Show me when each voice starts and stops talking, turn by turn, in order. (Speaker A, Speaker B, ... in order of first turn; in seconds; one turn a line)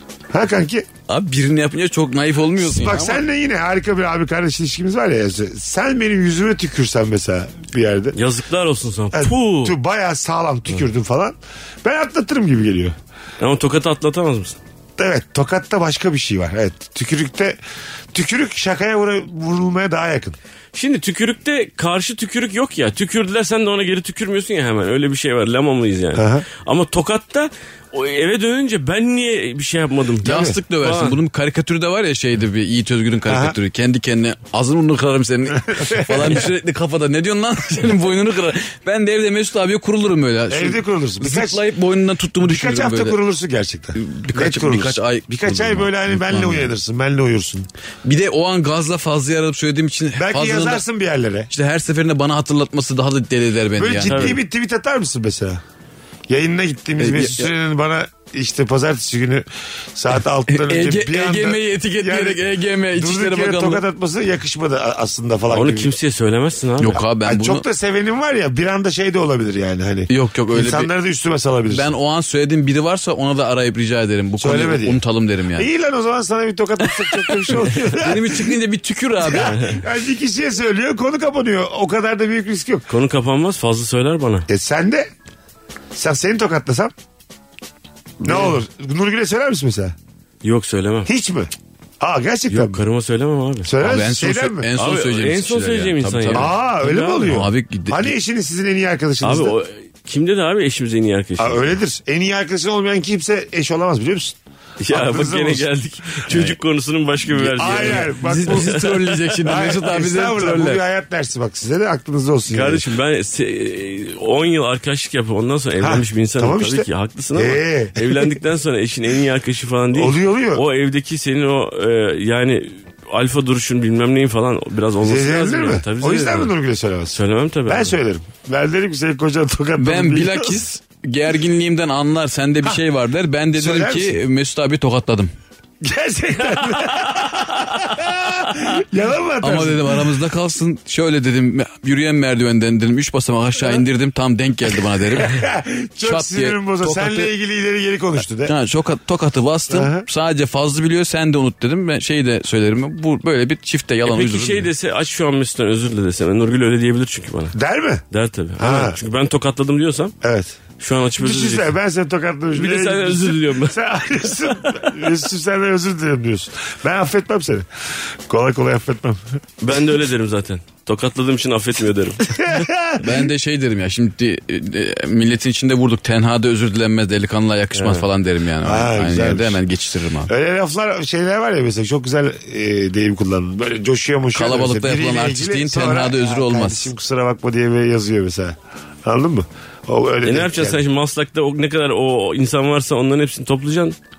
Speaker A: 0.3-0.9
Speaker B: 1.1-3.2
Speaker A: 2.7-8.2
Speaker C: 8.2-9.8
Speaker A: 9.1-12.9
Speaker C: 13.4-14.6
Speaker A: 15.0-17.6
Speaker A: 18.1-20.4
Speaker C: 20.7-31.2
Speaker A: 26.1-26.5
Speaker A: 30.2-30.6
Speaker B: 30.2-43.2
Speaker A: 33.3-33.6
Speaker A: 35.5-36.5
Speaker A: 40.5-41.6
Speaker A: 42.4-47.7
Speaker B: 44.0-46.7
Speaker B: 48.0-50.8
Speaker A: 50.2-51.5
Speaker B: 51.5-54.4
Speaker A: 53.8-55.6
Speaker C: 54.1-54.4
Speaker A: 56.3-65.9
Speaker B: 57.0-57.5
Speaker B: 60.5-63.8
Speaker C: 65.5-67.0
Speaker B: 66.8-67.6
Speaker A: 66.9-71.9
Speaker B: 70.1-70.9
Speaker B: 71.7-75.7
Speaker A: 74.4-75.0
Speaker A: 75.5-78.6
Speaker B: 77.6-79.7
Speaker A: 79.2-82.9
Speaker C: 79.4-79.8
Speaker C: 82.9-84.5
Speaker A: 84.5-85.1
Speaker A: 85.9-86.9
Speaker C: 88.2-88.6
Speaker A: 88.2-90.0
Speaker C: 90.4-91.1
Speaker A: 91.1-92.8
Speaker C: 92.5-93.7
Speaker A: 93.6-94.7
Speaker B: 93.8-96.5
Speaker C: 94.8-97.3
Speaker A: 96.3-99.6
Speaker B: 97.2-98.1
Speaker C: 99.2-101.7
Speaker A: 101.4-104.4
Speaker C: 104.8-109.3
Speaker A: 104.9-105.7
Speaker B: 106.3-106.6
Speaker B: 107.4-110.8
Speaker A: 107.4-108.8
Speaker A: 109.5-112.8
Speaker C: 112.5-126.5
Speaker A: 115.8-118.3
Speaker A: 119.9-120.6
Speaker A: 125.0-130.6
Speaker C: 127.1-128.0
Speaker B: 129.8-135.3
Speaker A: 133.6-134.2
Speaker A: 135.8-140.1
Speaker C: 136.5-137.8
Speaker B: 139.4-145.4
Speaker A: 145.1-148.5
Speaker B: 146.0-147.3
Speaker B: 148.4-154.7
Speaker A: 149.7-150.1
Speaker C: 154.1-157.6
Speaker A: 157.5-158.0
Speaker C: 158.1-160.1
Speaker A: 158.6-159.0
Speaker A: 160.2-160.6
Speaker C: 160.8-161.8
Speaker A: 161.2-167.7
Speaker C: 162.5-163.8
Speaker A: 168.3-169.4
Speaker C: 169.6-172.3
Speaker A: 172.3-173.3
Speaker B: 173.0-180.3
Speaker C: 177.8-178.1
Speaker A: 178.6-179.6
Speaker A: 180.3-190.8
Speaker B: 184.3-186.9
Speaker C: 190.2-194.0